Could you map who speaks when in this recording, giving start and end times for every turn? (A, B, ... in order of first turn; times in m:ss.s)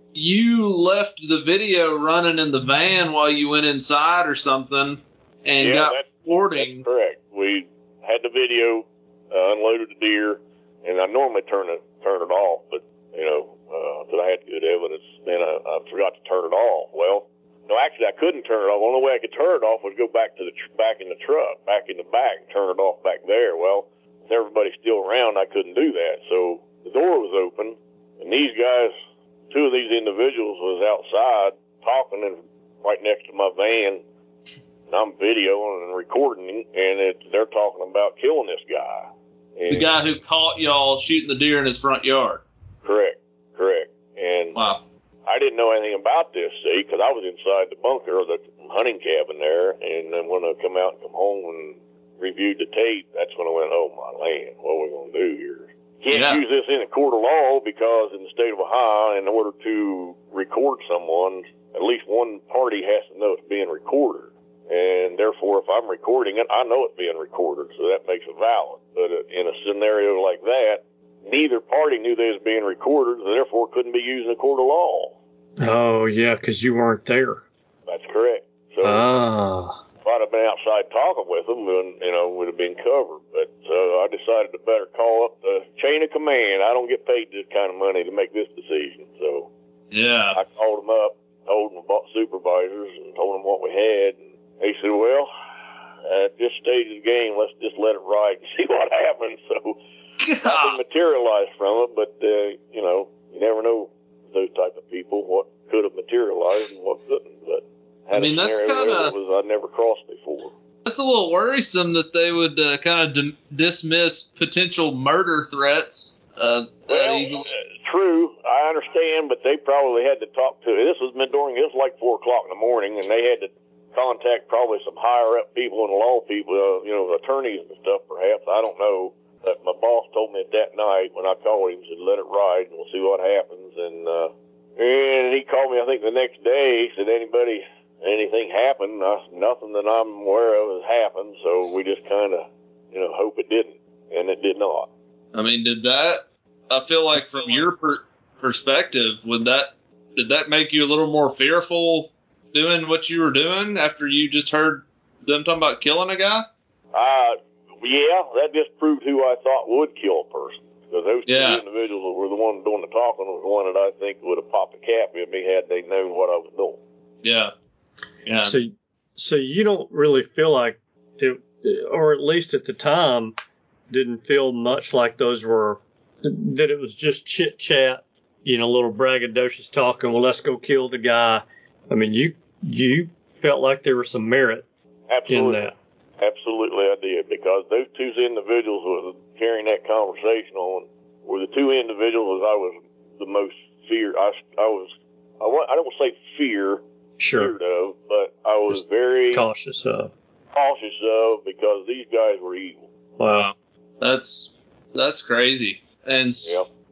0:00.1-0:06.8 A
0:05.6-0:28.9 B
0:29.5-0:34.0 B
0:34.9-0:40.0 B
0:39.7-0:42.4 A
0:42.8-0:44.7 B
0:44.5-0:44.8 A
0:45.2-1:15.2 B
0:56.1-0:56.4 A
1:15.6-1:17.4 C
1:17.9-1:19.1 B
1:18.8-1:19.8 C
1:20.0-1:29.5 B
1:29.9-1:30.4 A
1:30.3-1:35.3 B
1:36.1-1:39.8 B
1:40.2-1:40.8 A
1:40.4-1:50.5 B
1:48.1-1:49.1 A
1:50.8-1:57.5 A
1:56.9-2:24.9 B
2:25.3-2:36.4 A
2:27.3-2:27.6 B
2:36.9-2:46.8 B
2:41.3-2:41.6 A
2:47.2-2:47.5 A
2:48.2-2:48.6 A
2:48.4-2:53.4 C
2:53.9-3:04.6 C
3:05.1-3:19.4 B
3:05.3-3:05.7 C
3:17.2-3:17.5 C
3:18.7-3:20.1 C
3:20.5-3:22.8 B
3:23.2-3:23.5 C
3:23.3-3:26.6 A